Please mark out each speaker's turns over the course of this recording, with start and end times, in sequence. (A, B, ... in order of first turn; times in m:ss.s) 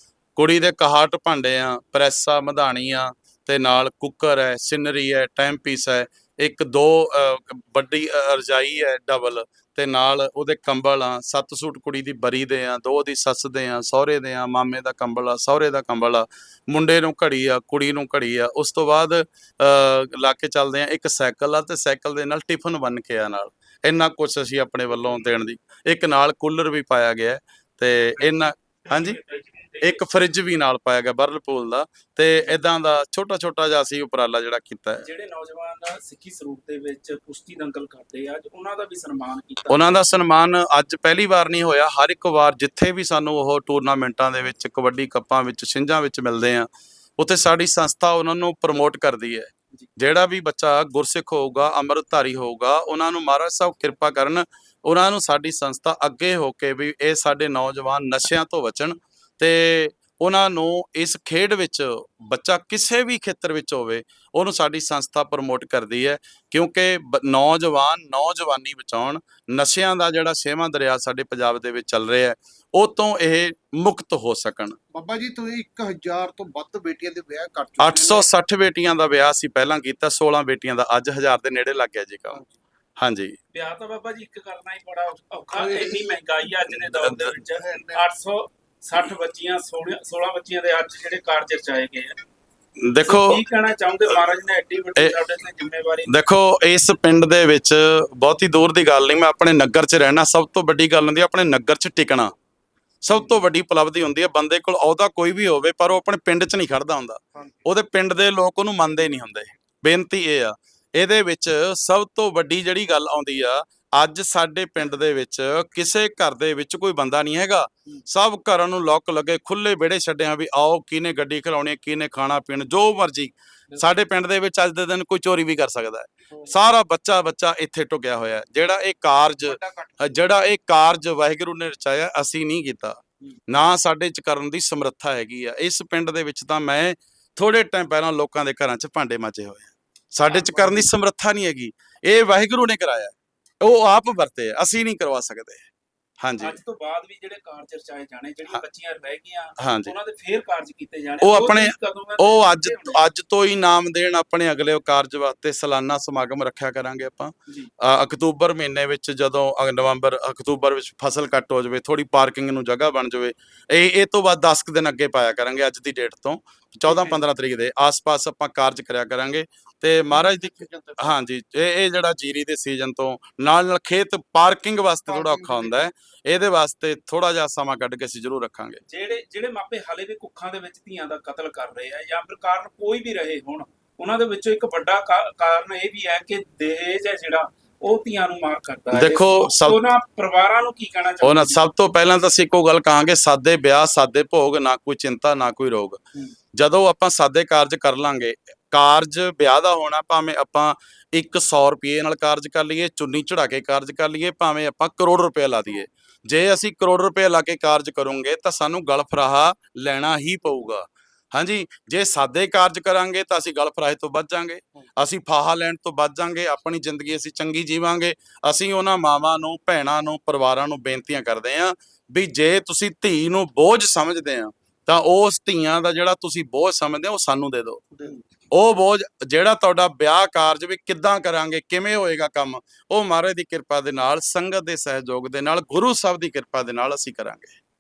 0:00.4-0:29.2 A
0:29.0-0:30.0 B
0:29.8-0:35.0 A
0:35.0-0:40.1 B
0:39.7-1:14.8 A
1:14.9-1:18.3 C
1:17.8-1:22.4 A
1:23.0-1:23.4 A
1:23.5-1:32.2 B
1:25.5-1:26.3 C
1:27.5-1:28.0 C
1:32.8-1:33.4 A
1:33.0-1:36.1 B
1:36.1-1:42.3 A
1:43.0-2:25.7 A
2:09.4-2:10.1 C
2:20.2-2:20.9 B
2:26.2-2:26.6 A
2:26.4-2:33.0 B
2:29.6-2:29.9 A
2:31.2-2:58.8 A
2:46.9-2:47.2 B
2:50.1-2:51.2 C
2:55.1-2:55.9 C
2:58.9-3:11.6 B
3:08.9-3:09.8 A
3:11.2-3:16.0 A
3:16.5-3:47.8 A
3:48.0-3:48.2 C
3:48.5-3:57.6 A